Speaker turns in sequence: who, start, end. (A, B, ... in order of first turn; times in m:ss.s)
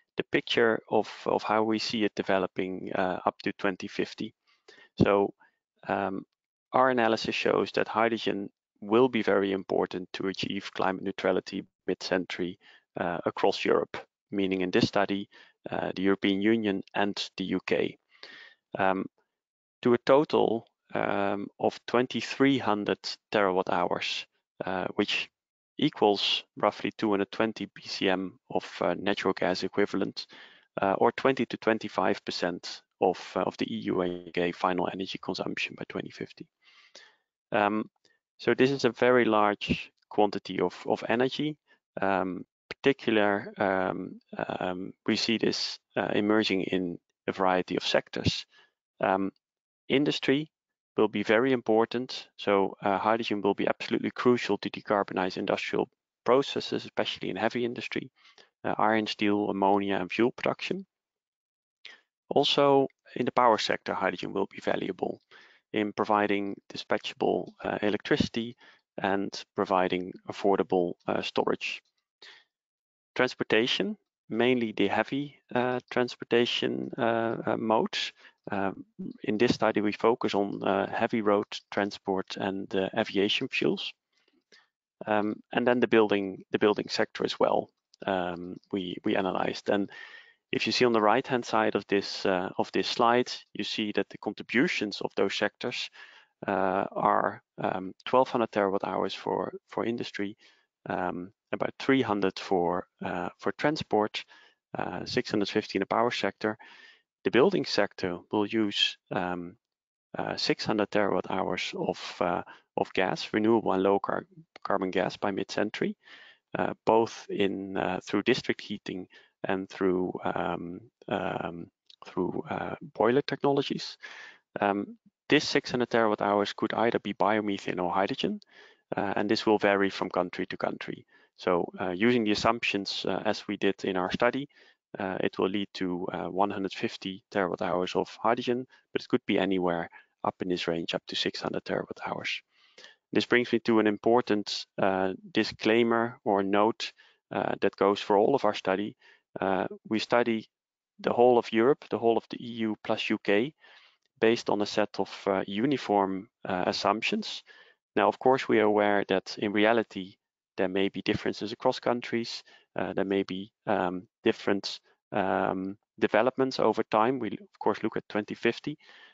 0:00.2-0:04.3 A
0:05.0-0:05.3 A
0:05.8-0:18.0 A
0:18.7-0:19.1 A
0:19.8-0:36.5 A
0:37.5-0:37.9 A
0:38.4-0:48.4 A
0:49.0-0:49.3 A
0:49.9-0:58.1 A
0:58.6-1:00.8 A
1:02.3-1:05.2 A
1:05.7-1:11.8 A
1:13.1-1:23.9 A
1:25.0-1:29.9 A
1:30.5-1:35.9 A
1:36.4-1:46.6 A
1:47.2-1:49.6 A
1:50.1-1:56.0 A
1:56.5-2:04.0 A
2:04.6-2:08.4 A
2:08.9-2:22.4 A
2:23.1-2:30.5 A
2:31.0-2:33.5 A
2:34.2-2:37.4 A
2:37.9-2:48.8 A